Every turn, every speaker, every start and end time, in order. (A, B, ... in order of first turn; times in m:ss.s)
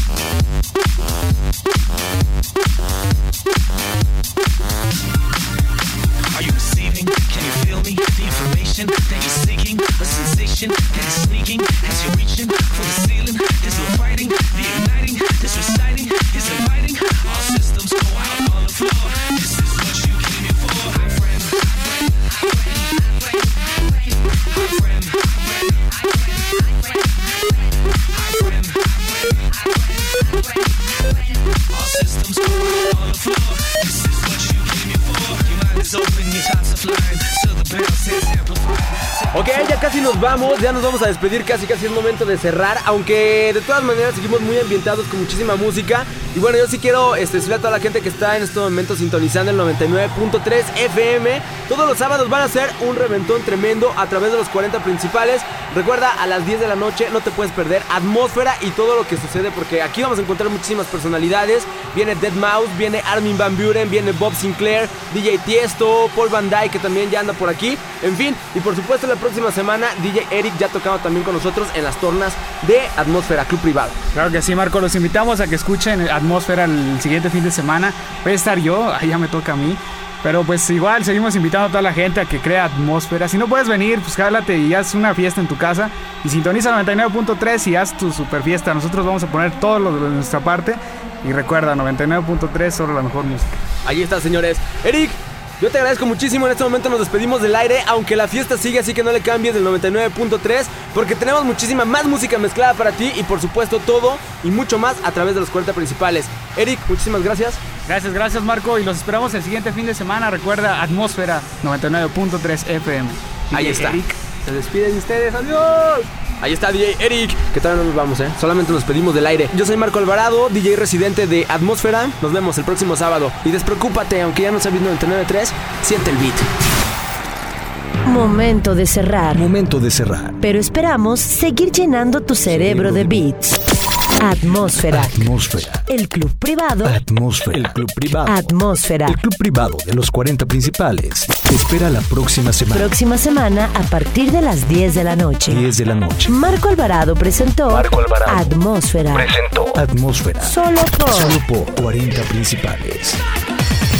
0:06.3-0:39.7 A
0:39.3-1:14.0 B
1:14.1-1:33.6 C
1:33.8-1:47.6 B
1:47.8-1:54.4 C
1:53.5-2:06.5 B
2:08.0-2:09.5 D
2:09.3-2:10.4 E
2:10.4-2:13.6 D
2:12.4-2:13.2 E
2:14.2-2:15.2 D
2:14.9-2:15.9 E
2:15.9-2:17.0 D
2:16.8-2:22.9 E
2:18.2-2:19.2 D
2:22.7-2:25.7 D
2:25.5-2:26.4 E
2:26.3-2:29.4 D
2:27.7-2:28.5 E
2:29.6-2:33.2 E
2:30.4-2:31.4 D